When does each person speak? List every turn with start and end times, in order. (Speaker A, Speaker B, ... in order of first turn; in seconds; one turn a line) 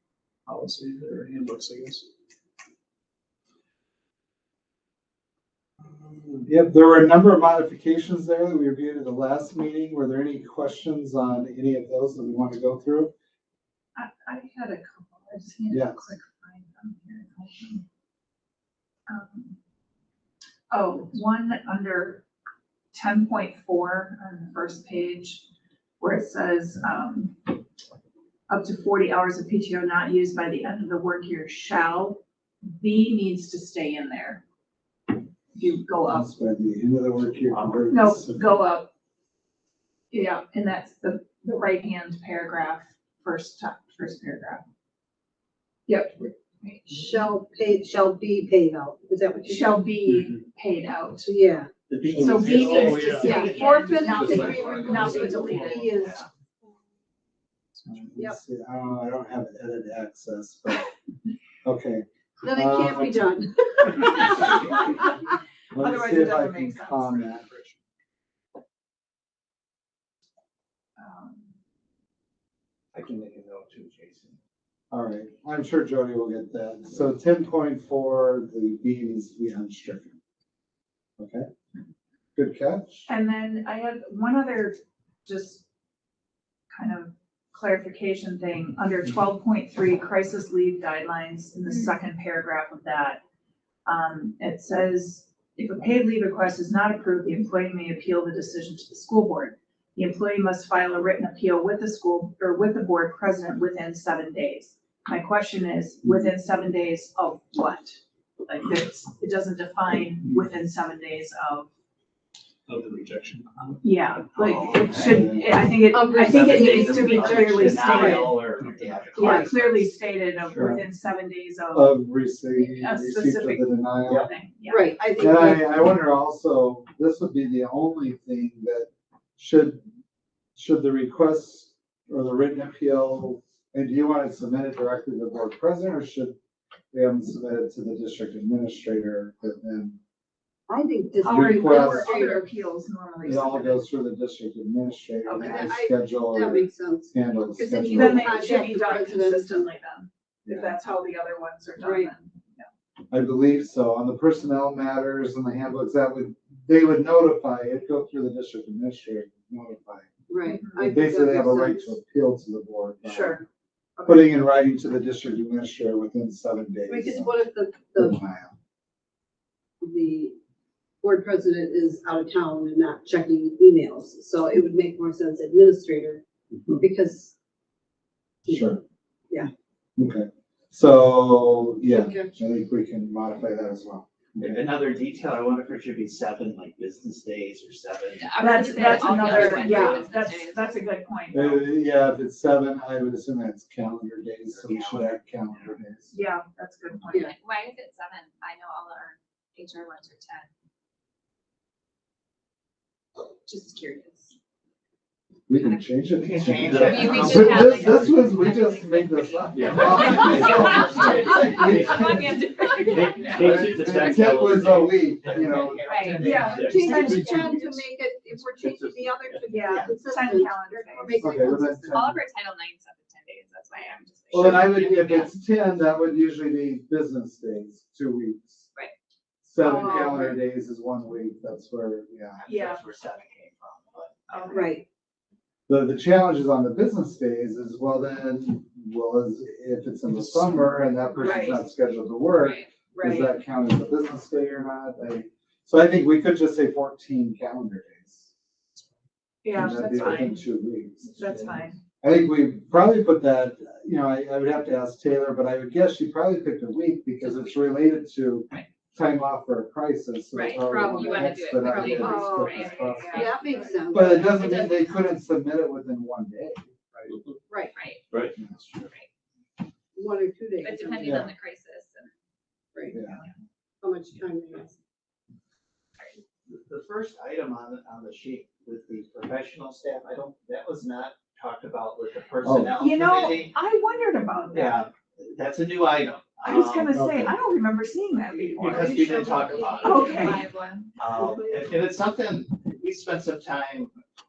Speaker A: 0.5-2.1
Speaker A: 5.8-6.5
Speaker B: 6.5-13.1
Speaker C: 14.0-17.8
Speaker B: 15.7-16.1
Speaker C: 19.1-19.6
Speaker C: 20.7-22.2
Speaker C: 22.9-25.4
Speaker C: 26.0-27.6
Speaker C: 28.5-34.4
Speaker C: 35.5-36.3
Speaker B: 36.1-38.6
Speaker C: 37.9-38.9
Speaker C: 40.1-44.6
Speaker C: 45.9-46.8
Speaker D: 46.9-49.8
Speaker C: 49.5-51.3
Speaker D: 51.3-51.7
Speaker E: 51.9-53.8
Speaker C: 52.1-56.1
Speaker B: 52.2-55.3
Speaker D: 53.1-56.2
Speaker E: 55.9-56.3
Speaker B: 57.9-60.9
Speaker B: 61.6-63.2
Speaker D: 62.4-64.5
Speaker B: 65.7-67.5
Speaker C: 65.8-67.3
Speaker C: 71.0-71.5
Speaker E: 72.9-74.4
Speaker B: 74.9-80.2
Speaker B: 81.2-81.5
Speaker B: 82.4-83.1
Speaker C: 83.1-85.6
Speaker C: 86.7-93.2
Speaker C: 93.8-111.7
Speaker A: 112.7-113.8
Speaker C: 113.8-118.5
Speaker E: 114.4-115.2
Speaker B: 115.0-115.6
Speaker D: 115.9-118.3
Speaker E: 116.3-119.9
Speaker A: 118.5-119.3
Speaker D: 119.1-119.5
Speaker C: 119.1-125.0
Speaker B: 120.4-120.9
Speaker B: 121.7-124.3
Speaker D: 124.7-125.8
Speaker B: 125.2-129.8
Speaker B: 130.6-136.4
Speaker B: 136.9-140.0
Speaker D: 140.7-142.5
Speaker C: 141.2-143.8
Speaker B: 141.2-142.2
Speaker B: 143.2-148.5
Speaker D: 145.3-149.7
Speaker C: 147.9-152.7
Speaker B: 150.4-150.8
Speaker D: 151.8-152.1
Speaker B: 153.1-160.1
Speaker D: 160.3-162.0
Speaker C: 160.5-160.8
Speaker B: 160.7-163.4
Speaker C: 163.1-163.4
Speaker B: 164.1-167.4
Speaker D: 166.9-168.2
Speaker B: 168.0-168.5
Speaker D: 169.8-170.3
Speaker D: 171.0-176.2
Speaker D: 176.8-177.3
Speaker D: 178.4-178.8
Speaker B: 178.5-178.8
Speaker B: 180.0-184.7
Speaker D: 181.9-182.4
Speaker E: 184.4-188.6
Speaker F: 188.2-190.8
Speaker C: 188.4-191.7
Speaker B: 191.3-196.1
Speaker E: 194.5-195.7
Speaker C: 196.1-197.3
Speaker F: 197.2-200.5
Speaker F: 203.5-204.3
Speaker B: 205.5-212.4
Speaker E: 206.2-208.3
Speaker F: 206.7-214.3
Speaker E: 209.5-216.9
Speaker B: 213.3-217.6
Speaker F: 215.9-216.3
Speaker C: 216.2-217.7
Speaker D: 216.6-222.1
Speaker E: 218.3-219.9
Speaker C: 219.5-221.4
Speaker B: 221.2-222.2
Speaker F: 221.9-225.3
Speaker B: 224.3-228.7
Speaker B: 229.4-232.4
Speaker C: 229.6-230.4
Speaker D: 229.8-230.2
Speaker E: 232.4-234.7
Speaker C: 232.5-232.8
Speaker C: 234.3-234.7
Speaker D: 234.5-234.8
Speaker B: 235.7-248.3
Speaker C: 241.2-241.6
Speaker F: 242.4-242.7
Speaker C: 242.9-243.3
Speaker C: 249.4-250.4
Speaker B: 249.5-263.4
Speaker C: 251.2-251.8
Speaker F: 257.2-257.5
Speaker F: 260.3-263.4
Speaker D: 260.9-264.7
Speaker C: 262.0-263.4
Speaker B: 263.9-266.7
Speaker F: 264.2-264.7
Speaker D: 267.5-267.8
Speaker F: 267.7-268.0
Speaker B: 268.4-268.9
Speaker F: 268.8-269.1
Speaker D: 269.9-271.3
Speaker F: 270.6-272.1
Speaker B: 271.0-271.3
Speaker D: 272.7-273.0
Speaker B: 272.9-273.2
Speaker D: 273.8-274.8
Speaker E: 276.5-283.6
Speaker B: 282.4-282.8
Speaker C: 282.8-284.9
Speaker E: 284.5-286.9
Speaker C: 286.4-289.0
Speaker B: 286.9-287.4
Speaker E: 288.3-290.3
Speaker D: 288.7-290.4
Speaker F: 289.5-291.0
Speaker C: 289.8-290.4
Speaker E: 291.0-293.9
Speaker D: 291.0-291.8